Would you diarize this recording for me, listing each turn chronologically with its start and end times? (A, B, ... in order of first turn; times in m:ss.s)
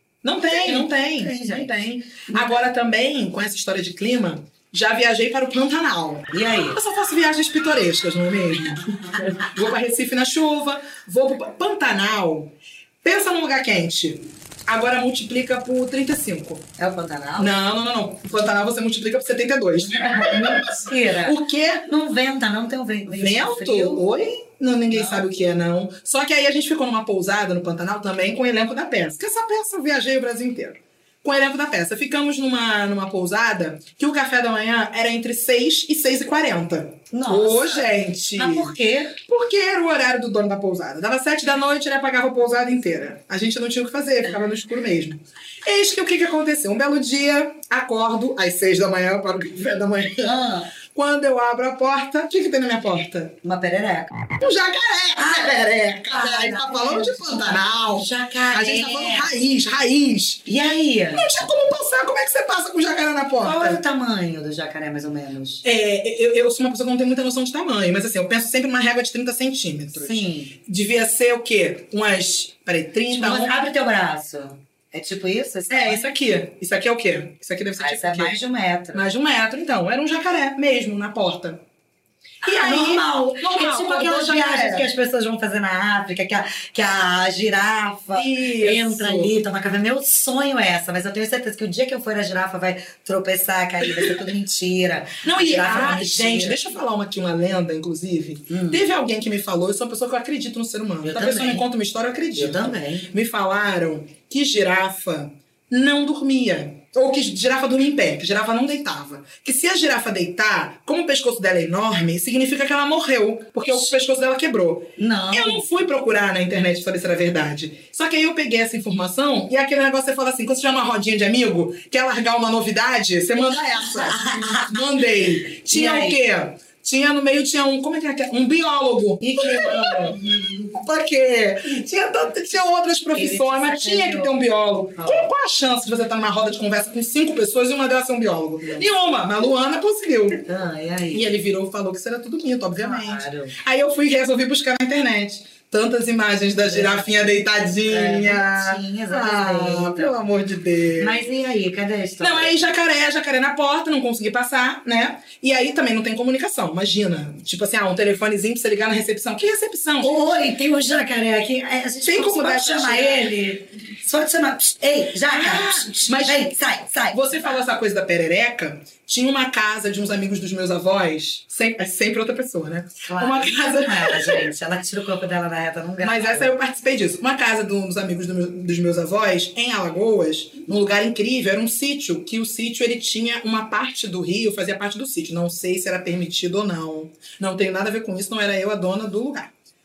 0:00.2-0:16.7 A
0:00.5-0:02.7 B
0:06.3-0:06.8 B
0:16.8-0:17.5 B
0:17.4-0:21.8 A
0:19.8-0:24.1 B
0:23.1-0:38.7 A
0:24.9-0:25.2 B
0:37.1-0:39.2 B
0:39.2-0:50.4 A
0:50.2-0:50.7 B
0:50.9-0:53.4 A
0:53.4-0:54.3 B
0:54.4-1:00.4 A
0:55.2-0:59.3 B
1:00.4-1:01.3 B
1:01.1-1:03.8 A
1:03.4-1:05.6 B
1:05.6-1:13.6 A
1:09.9-1:10.6 B
1:13.1-1:16.1 B
1:15.7-1:18.3 A
1:17.8-1:19.0 B
1:18.9-1:21.6 A
1:22.4-1:36.6 B
1:22.4-1:24.9 A
1:28.1-1:29.3 A
1:35.2-2:10.2 A
1:38.5-1:38.8 B
1:41.0-1:41.6 B
1:42.3-1:43.1 B
1:55.0-1:55.6 B
2:03.5-2:04.8 B
2:05.7-2:06.2 B
2:09.2-2:10.8 B
2:10.7-2:20.4 A
2:13.1-2:14.3 B
2:14.9-2:15.3 B
2:18.6-2:18.9 B
2:20.4-2:21.3 B
2:21.1-2:31.2 A
2:22.8-2:23.6 B
2:26.6-2:30.2 B
2:31.0-2:32.6 B
2:32.2-2:40.3 A
2:40.0-2:47.3 B
2:42.0-2:43.3 A
2:45.3-2:46.5 A
2:47.1-2:54.5 A
2:53.0-2:56.5 B
2:56.0-3:09.5 A